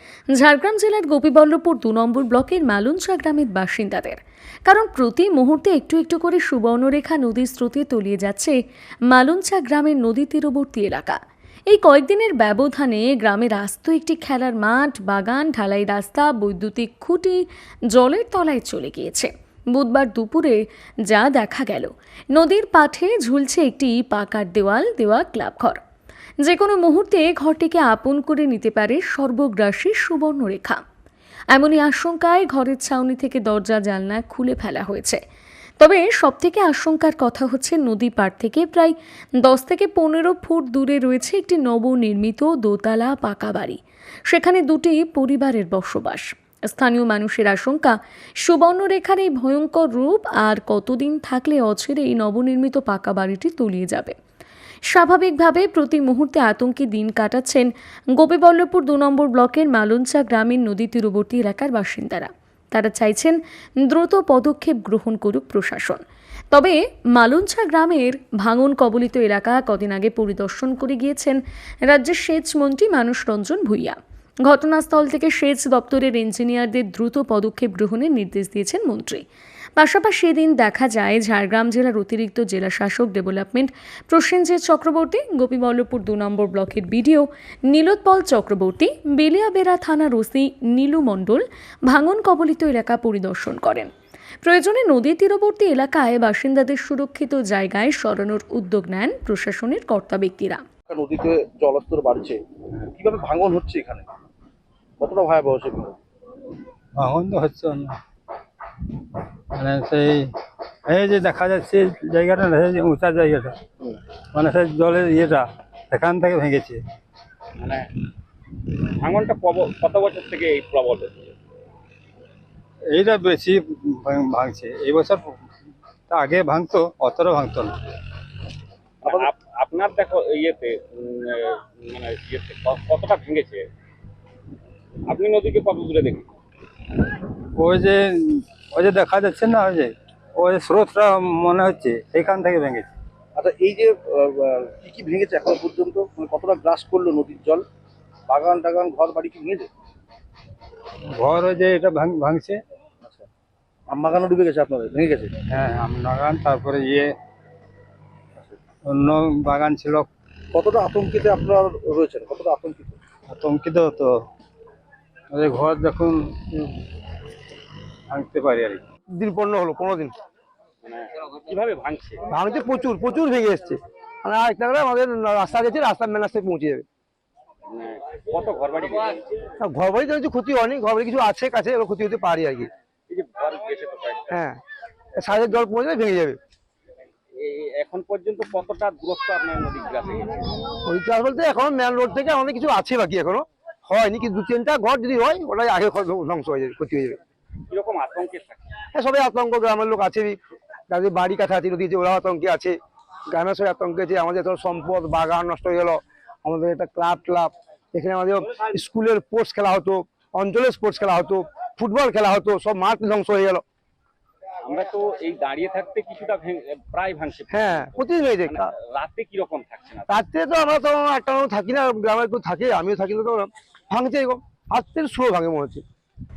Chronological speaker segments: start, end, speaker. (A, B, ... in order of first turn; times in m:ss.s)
0:00.3-0:08.6 A
0:09.1-0:25.8 A
0:26.4-0:30.8 A
0:31.5-0:35.2 A
0:35.8-0:54.2 A
0:54.9-1:19.2 A
1:19.8-1:33.9 A
1:34.4-1:40.6 A
1:40.9-1:44.1 B
1:45.0-1:46.0 B
1:47.0-1:48.0 C
1:49.5-1:50.3 C
1:50.9-1:53.6 C
1:54.3-1:56.8 C
1:57.6-1:57.9 D
1:58.9-2:01.3 D
2:02.9-2:05.2 C
2:06.1-2:07.7 C
2:09.0-2:13.7 D
2:15.1-2:16.3 D
2:17.6-2:22.9 C
2:23.4-2:27.7 B
2:28.3-2:29.7 B
2:31.1-2:32.6 C
2:33.0-2:33.3 B
2:33.9-2:35.4 B
2:35.5-2:37.1 C
2:38.9-2:40.1 C
2:40.5-2:43.0 B
2:43.3-2:44.1 C
2:45.3-2:46.6 C
2:48.1-2:48.8 C
2:49.2-2:50.1 E
2:50.8-2:52.2 D
2:52.3-2:56.9 E
2:57.7-2:59.5 D
2:59.6-3:02.7 E
3:03.1-3:04.4 D
3:04.3-3:04.6 E
3:05.2-3:06.4 E
3:07.4-3:10.5 D
3:10.8-3:17.2 E
3:17.7-3:18.7 D
3:18.9-3:20.4 E
3:20.9-3:22.8 E
3:23.3-3:33.6 E
3:34.6-3:40.2 D
3:37.5-3:38.7 E
3:40.1-3:45.8 E